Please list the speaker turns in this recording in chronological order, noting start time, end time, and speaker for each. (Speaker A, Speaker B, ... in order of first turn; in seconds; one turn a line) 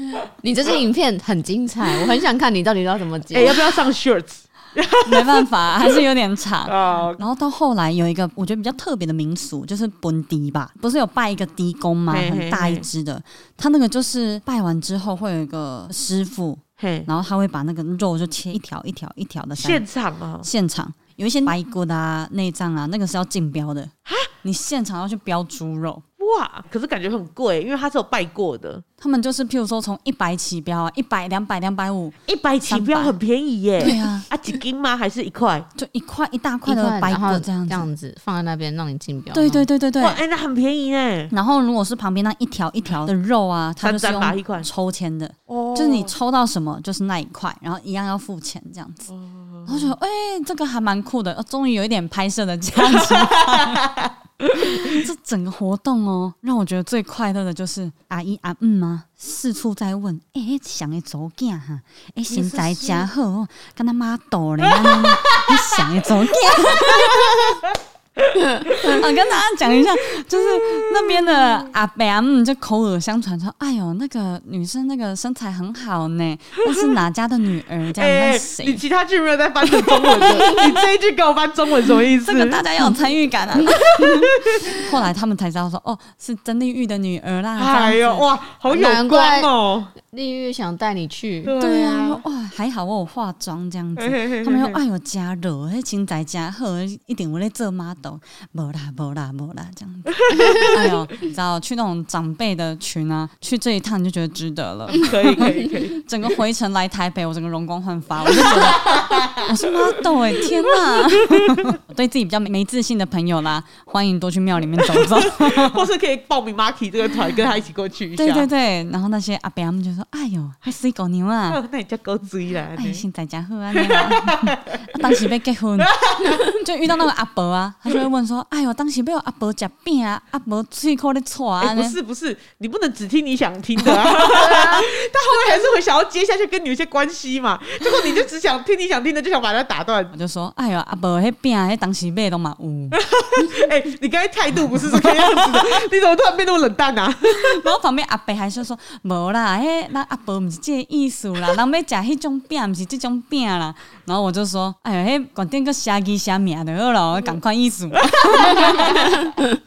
Speaker A: 0.4-3.5
Speaker B: 3.3-6.0
Speaker C: 5.0-19.8
Speaker B: 6.7-7.2
Speaker B: 12.1-12.9
Speaker B: 16.8-17.1
Speaker B: 19.6-20.5
Speaker C: 20.4-26.0
Speaker B: 26.2-28.8
Speaker C: 29.0-33.1
Speaker B: 32.2-35.7
Speaker C: 33.8-34.3
Speaker C: 35.8-37.9
Speaker A: 36.6-39.7
Speaker C: 39.3-40.2
Speaker B: 40.0-41.3
Speaker C: 41.3-49.1
Speaker B: 43.8-44.7
Speaker B: 45.5-46.1
Speaker B: 49.1-49.9
Speaker C: 49.6-53.8
Speaker B: 52.9-55.0
Speaker C: 54.5-67.5
Speaker B: 62.3-63.0
Speaker B: 64.6-65.5
Speaker B: 66.5-69.0
Speaker C: 68.7-78.8
Speaker B: 70.3-71.7
Speaker B: 76.6-76.9
Speaker B: 78.0-82.6
Speaker A: 80.2-80.5
Speaker C: 82.2-84.0
Speaker B: 84.0-84.6
Speaker C: 84.6-88.3
Speaker B: 87.6-89.9
Speaker A: 88.7-89.5
Speaker A: 90.0-91.5
Speaker B: 91.4-92.2
Speaker C: 91.6-115.9
Speaker B: 94.0-94.8
Speaker B: 100.2-100.7
Speaker B: 105.0-106.0
Speaker B: 108.3-109.4
Speaker B: 115.0-118.5
Speaker C: 118.1-121.6
Speaker B: 121.5-123.0
Speaker C: 122.8-132.0
Speaker B: 123.7-124.7
Speaker B: 125.8-126.5
Speaker B: 131.6-140.1
Speaker C: 133.8-134.6
Speaker A: 134.3-134.8
Speaker C: 140.1-143.0
Speaker B: 142.9-147.7
Speaker C: 147.3-159.2
Speaker B: 158.0-159.3